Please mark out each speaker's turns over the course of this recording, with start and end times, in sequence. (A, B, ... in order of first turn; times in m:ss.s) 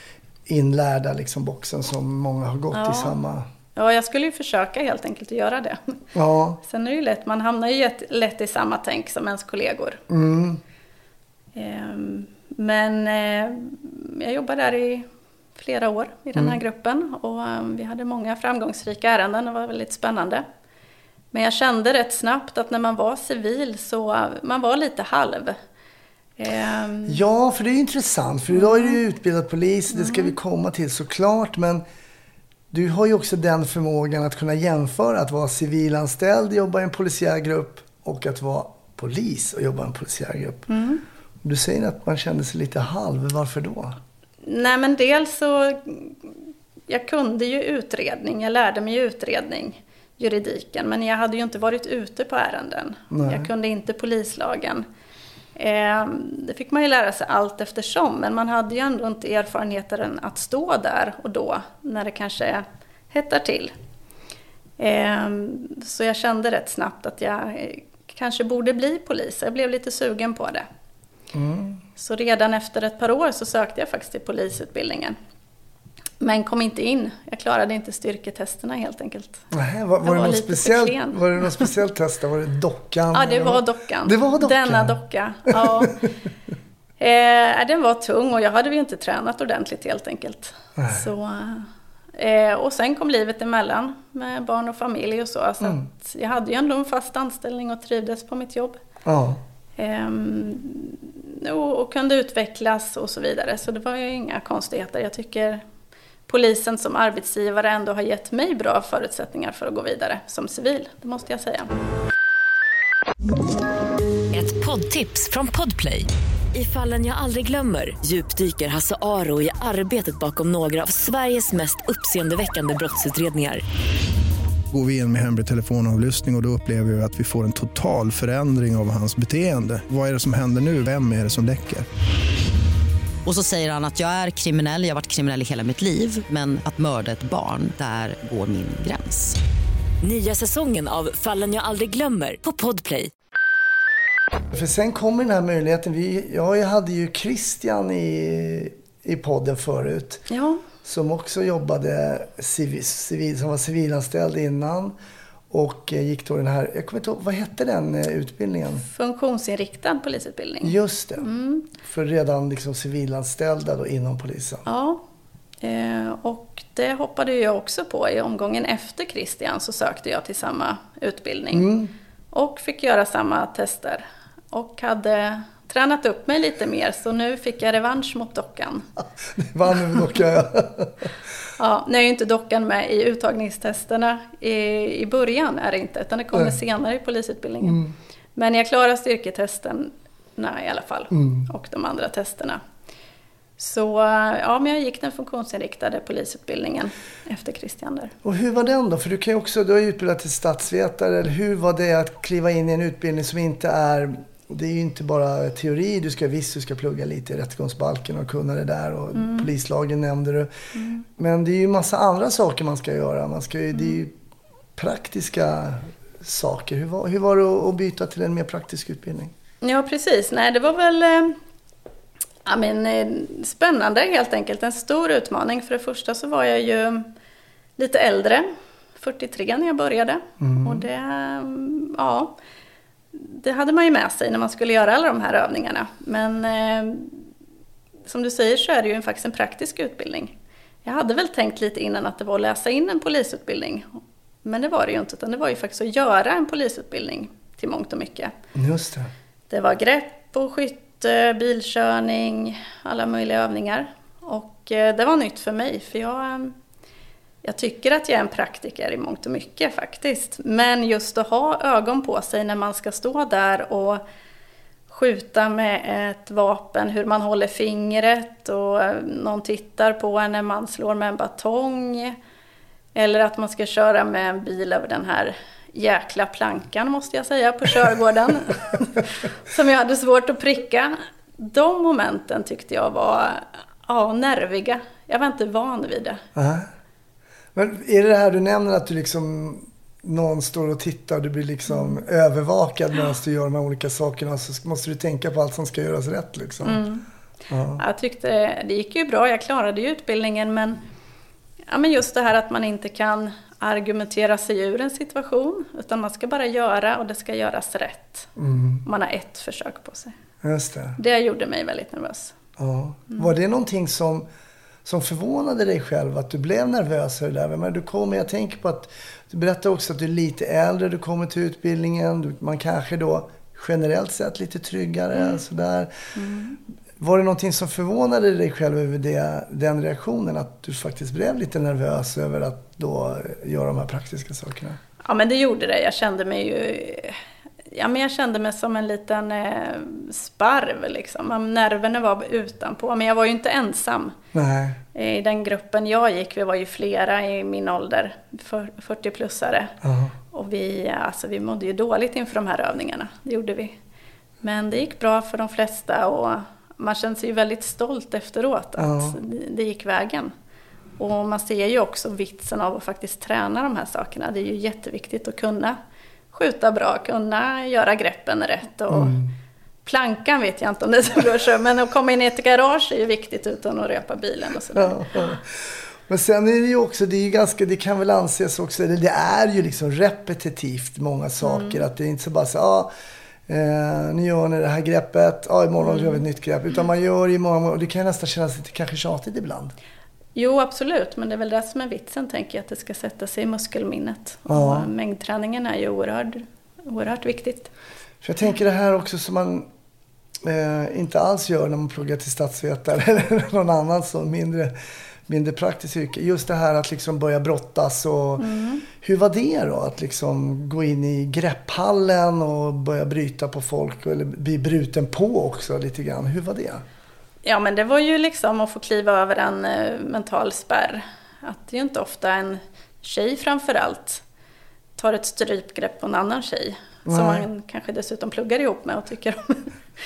0:00.5-0:03.5 A
0:02.7-0:03.2 B
0:03.8-0:06.0 B
0:06.1-0:06.6 A
0:06.6-0:10.0 B
0:10.1-0:10.6 A
0:11.6-0:20.4 B
0:21.3-0:25.6 B
0:26.4-0:27.2 B
0:27.1-0:31.8 A
0:28.5-0:29.0 B
0:29.9-0:30.3 B
0:32.7-0:40.7 A
0:40.7-0:41.0 B
0:41.4-0:44.0 A
0:44.4-0:46.2 B
0:46.9-0:54.8 B
0:53.1-0:53.5 A
0:55.6-1:03.7 B
1:04.8-1:10.7 B
1:11.3-1:11.8 A
1:12.0-1:15.2 B
1:16.2-1:19.4 B
1:19.5-1:26.0 A
1:20.0-1:21.7 B
1:23.1-1:26.1 B
1:27.0-1:38.8 B
1:30.8-1:31.1 A
1:39.0-1:39.4 A
1:39.8-1:45.6 B
1:46.3-1:51.7 B
1:54.3-2:03.6 C
2:04.7-2:11.9 D
2:13.2-2:19.4 E
2:20.0-2:23.1 C
2:24.5-2:30.2 A
2:30.3-2:30.6 B
2:30.8-2:35.0 A
2:35.5-2:38.8 A
2:38.7-2:41.7 B
2:40.6-2:44.6 A
2:44.7-2:45.0 B
2:45.6-2:51.7 B
2:51.5-2:51.9 A
2:52.3-2:58.8 B
2:59.3-3:01.1 A
3:01.6-3:07.8 B
3:07.6-3:07.9 A
3:08.4-3:12.6 B
3:11.1-3:11.5 A
3:13.6-3:18.1 B
3:18.2-3:30.5 A
3:29.2-3:29.5 B
3:30.8-3:31.0 B
3:31.1-3:34.1 A
3:33.7-3:34.0 B
3:34.8-3:39.3 A
3:39.6-3:41.4 B
3:42.4-3:47.1 B
3:47.8-3:48.5 B
3:49.0-3:52.3 B
3:50.4-3:50.9 A
3:53.1-3:57.2 B
3:58.1-4:08.3 B
4:08.5-4:09.1 A
4:09.5-4:16.6 B
4:17.4-4:24.0 B
4:24.9-4:32.2 B
4:33.0-4:46.2 B
4:46.4-4:46.7 A
4:47.6-4:56.8 A
4:51.7-4:52.0 B
4:56.6-4:57.0 B
4:57.5-4:57.8 A
4:57.8-5:00.8 B
5:01.7-5:08.3 B
5:08.4-5:08.8 A
5:08.8-5:10.2 B
5:10.4-5:11.0 A
5:11.0-5:12.4 B
5:12.6-5:14.3 A
5:14.8-5:25.9 A
5:26.2-5:26.6 B
5:27.0-5:34.8 A
5:35.0-5:37.2 B
5:37.7-5:44.2 B
5:44.3-5:44.8 A
5:45.0-5:49.7 B
5:49.8-5:50.2 A
5:50.3-5:53.8 B
5:54.4-6:00.3 B
5:58.8-5:59.2 A
6:01.0-6:05.8 B
6:06.3-6:09.2 B
6:08.9-6:09.3 A
6:09.8-6:15.4 B
6:14.7-6:22.9 A
6:21.4-6:21.8 B
6:23.5-6:29.8 A
6:25.8-6:26.2 B
6:30.4-6:37.7 B
6:34.5-6:34.9 A
6:38.2-6:39.7 A
6:40.4-6:44.8 A
6:45.3-6:56.8 A
6:48.4-6:48.8 B
6:57.4-7:04.2 B
7:05.0-7:09.7 B
7:07.1-7:07.5 A